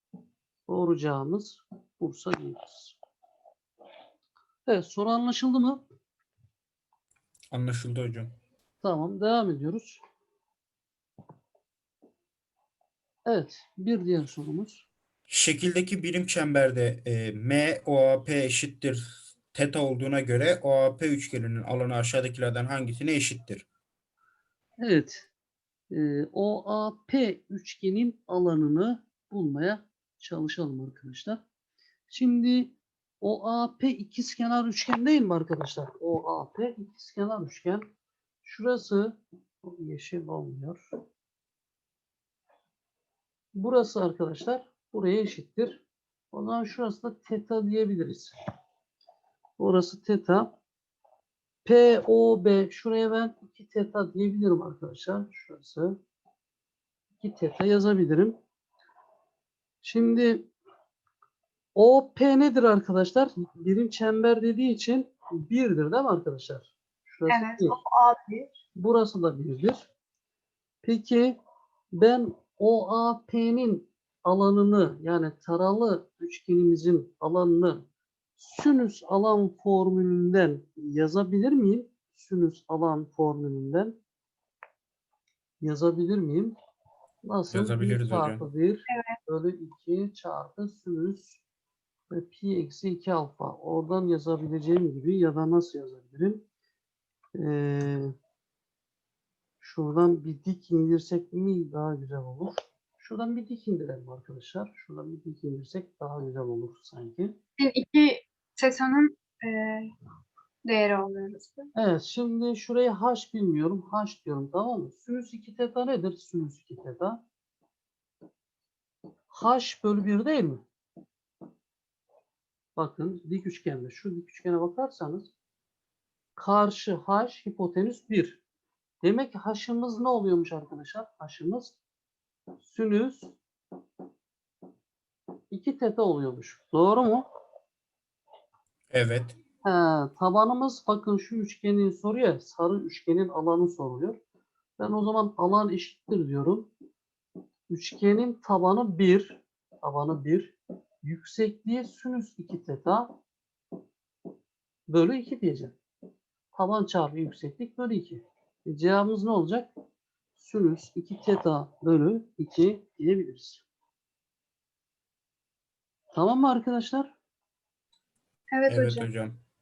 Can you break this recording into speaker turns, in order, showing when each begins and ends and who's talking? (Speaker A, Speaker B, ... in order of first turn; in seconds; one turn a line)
Speaker A: 0.7-2.9
Speaker A: 4.7-5.8
Speaker B: 7.5-8.3
Speaker A: 8.8-10.0
Speaker A: 13.2-14.8
Speaker B: 15.3-23.6
Speaker A: 24.8-25.3
Speaker A: 25.9-31.4
Speaker A: 32.1-37.8
Speaker A: 38.4-40.8
Speaker A: 43.5-48.3
Speaker A: 49.6-50.5
Speaker A: 51.6-56.0
Speaker A: 57.2-58.4
Speaker A: 59.8-60.5
Speaker A: 61.7-67.7
Speaker C: 67.3-68.5
Speaker A: 68.8-69.9
Speaker A: 70.8-71.4
Speaker A: 71.9-77.8
Speaker A: 78.4-84.0
Speaker A: 85.6-86.5
Speaker A: 87.2-91.4
Speaker B: 87.5-88.4
Speaker C: 88.9-89.2
Speaker A: 92.1-96.4
Speaker A: 97.3-98.1
Speaker A: 99.6-107.3
Speaker C: 107.6-109.9
Speaker C: 110.6-111.7
Speaker A: 111.8-117.2
Speaker A: 119.3-120.6
Speaker A: 122.8-125.3
Speaker A: 126.4-128.4
Speaker A: 129.0-131.8
Speaker A: 132.6-133.3
Speaker A: 135.5-137.2
Speaker B: 138.9-139.3
Speaker A: 139.6-144.2
Speaker A: 144.8-146.7
Speaker A: 147.7-153.1
Speaker A: 154.9-155.8
Speaker A: 156.5-159.7
Speaker A: 160.4-163.6
Speaker A: 166.1-167.1
Speaker C: 168.5-169.1
Speaker B: 168.7-169.4